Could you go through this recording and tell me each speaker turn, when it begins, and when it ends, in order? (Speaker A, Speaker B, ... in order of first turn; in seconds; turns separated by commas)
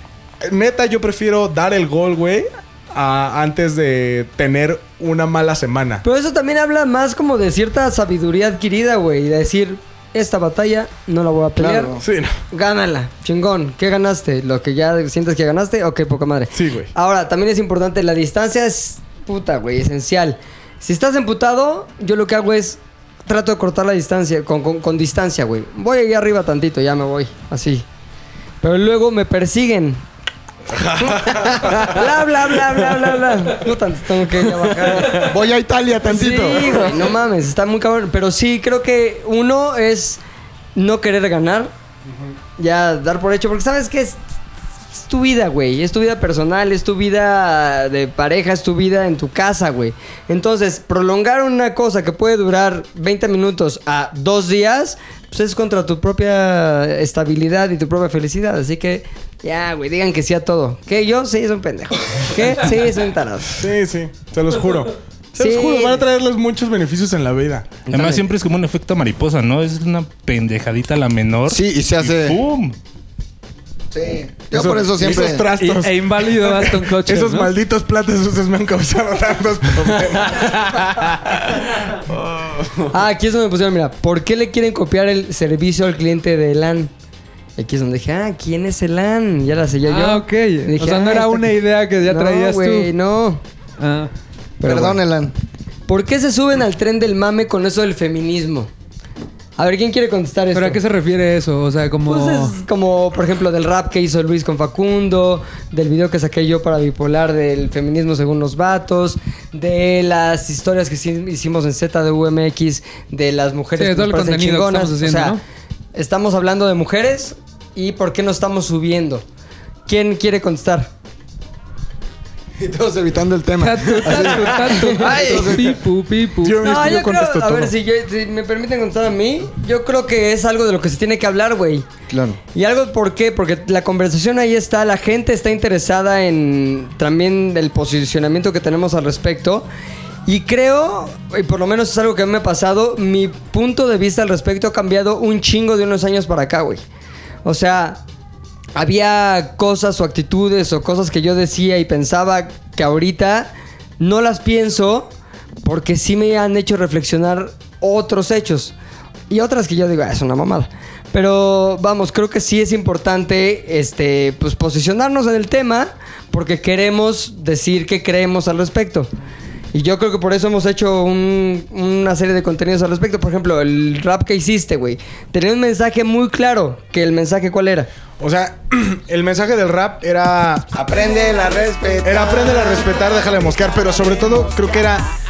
Speaker A: 0.4-6.0, Speaker B: 6.0-11.9, Speaker C: 11.6-12.1, Speaker A: 12.0-12.3, Speaker B: 12.5-27.9, Speaker A: 16.5-16.9, Speaker B: 28.6-30.0, Speaker A: 30.8-31.5, Speaker B: 31.1-35.4, Speaker C: 35.0-37.0, Speaker B: 36.0-40.2, Speaker B: 40.8-41.7, Speaker B: 42.6-44.2, Speaker B: 44.9-63.6, Speaker A: 63.5-67.8, Speaker B: 65.4-66.0, Speaker B: 67.9-68.2, Speaker D: 67.9-72.8, Speaker C: 71.5-72.4, Speaker C: 73.9-75.5, Speaker A: 74.5-81.6, Speaker E: 75.5-77.5, Speaker B: 82.9-86.9, Speaker B: 87.6-93.4, Speaker E: 89.9-92.9, Speaker E: 93.8-94.1, Speaker B: 94.6-95.0, Speaker C: 94.6-95.3, Speaker B: 95.9-98.7, Speaker B: 99.6-100.8, Speaker E: 100.5-102.6, Speaker B: 102.1-115.4, Speaker E: 113.8-115.4, Speaker B: 116.0-119.2, Speaker B: 119.9-120.9, Speaker C: 122.6-125.8, Speaker E: 123.6-126.8, Speaker B: 124.5-125.4, Speaker A: 126.4-127.7, Speaker B: 126.6-131.9, Speaker C: 132.1-132.4, Speaker B: 132.5-139.7, Speaker B: 140.3-146.8, Speaker B: 147.4-148.0, Speaker B: 148.8-155.1, Speaker B: 155.6-158.8, Speaker B: 159.3-169.1, Speaker B: 169.7-177.9, Speaker A: 178.2-180.7, Speaker C: 180.7-182.9, Speaker A: 182.0-185.1